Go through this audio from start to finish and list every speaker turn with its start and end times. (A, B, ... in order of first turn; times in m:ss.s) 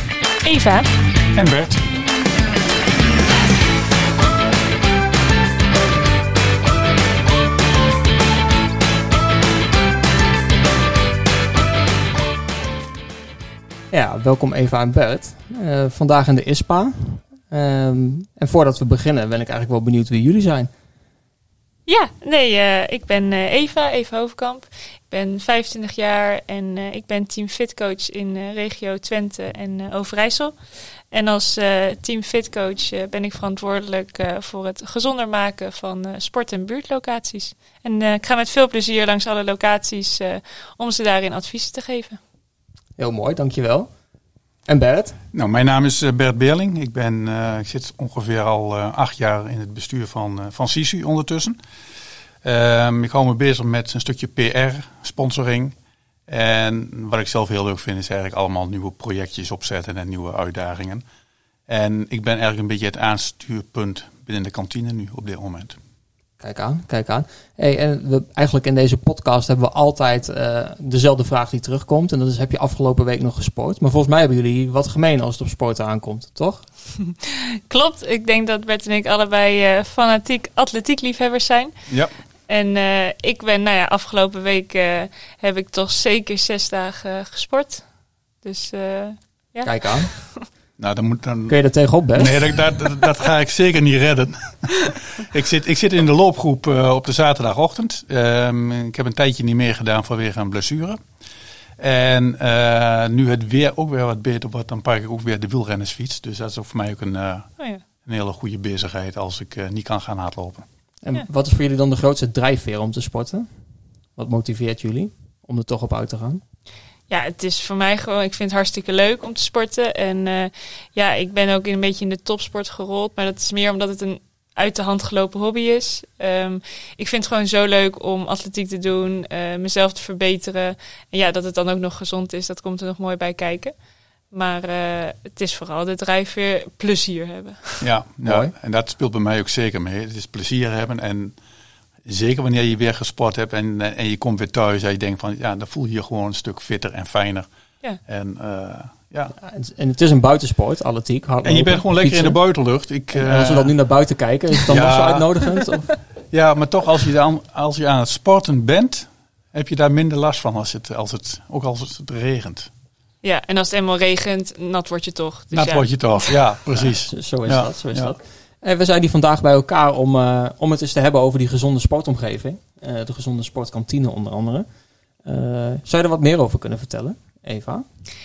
0:00.4-0:00.9 A
0:01.3-0:01.8 B
0:13.9-0:20.7 C
0:21.9-0:30.5 A
0:31.1-0:42.2 A
0:43.0-0:43.9 C
0:44.7-0:45.2 C
0:45.3-0:51.6 B
0:52.4-0:55.7 B
0:56.3-1:01.0 B
1:01.7-1:05.8 B
1:06.4-1:16.6 C
1:17.0-1:21.7 A
1:22.5-1:27.8 A
1:28.4-1:30.5 A
1:29.6-1:30.1 C
1:30.8-1:31.6 B
1:31.5-1:32.5 C
1:32.1-1:41.0 B
1:41.8-1:50.7 B
1:51.0-1:53.5 C
1:54.2-1:56.4 C
1:57.1-2:13.7 A
2:14.3-2:17.8 A
2:17.8-2:21.4 B
2:18.2-2:18.5 C
2:22.0-2:27.5 B
2:28.0-2:29.3 B
2:29.4-2:32.4 C
2:31.4-2:33.7 B
2:33.1-2:35.9 C
2:34.7-2:35.3 B
2:36.3-2:42.7 B
2:43.2-2:45.8 A
2:45.5-2:48.1 B
2:46.8-2:54.6 C
2:55.2-2:57.8 C